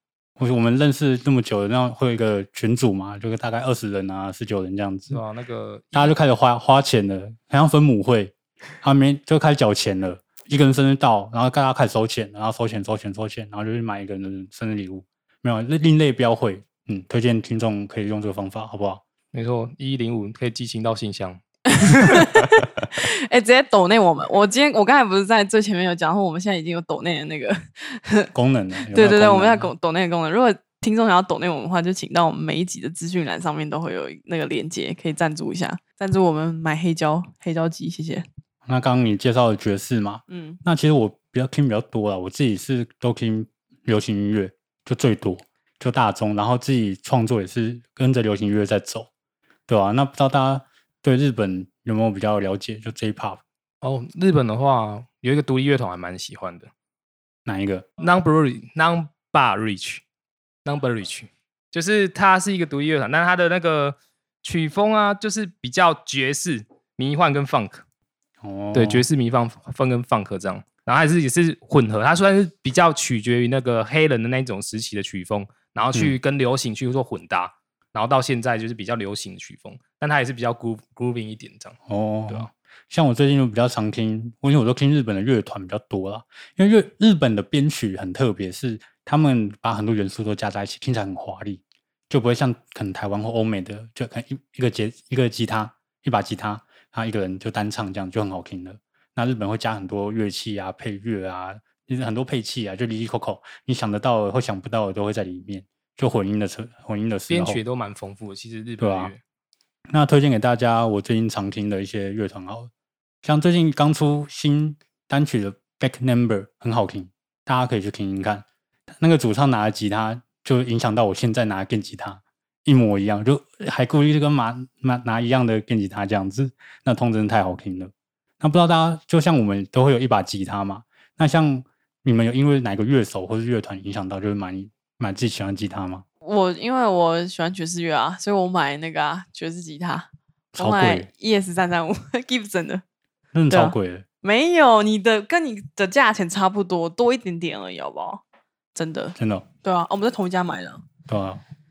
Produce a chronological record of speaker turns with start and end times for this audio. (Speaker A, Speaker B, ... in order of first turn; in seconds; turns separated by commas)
Speaker A: 0.4-5.2, Speaker B: 5.1-6.2, Speaker A: 5.9-19.0, Speaker B: 19.3-22.2, Speaker C: 21.7-28.3, Speaker A: 28.3-29.7, Speaker C: 28.9-38.2, Speaker A: 38.7-49.1, Speaker C: 40.3-40.6, Speaker A: 49.7-53.4, Speaker B: 53.8-56.7, Speaker A: 57.5-57.9, Speaker B: 58.0-60.0, Speaker B: 60.6-67.8, Speaker A: 68.4-69.1, Speaker B: 68.7-81.8, Speaker A: 75.9-76.2, Speaker A: 81.9-107.6, Speaker B: 107.3-109.2, Speaker A: 108.8-109.1, Speaker A: 109.9-112.7, Speaker A: 113.2-118.5, Speaker A: 119.0-136.1, Speaker C: 136.2-142.8, Speaker A: 140.6-141.1, Speaker A: 143.3-144.1, Speaker C: 143.5-148.2, Speaker C: 148.8-150.8, Speaker A: 149.2-149.5, Speaker A: 151.1-151.4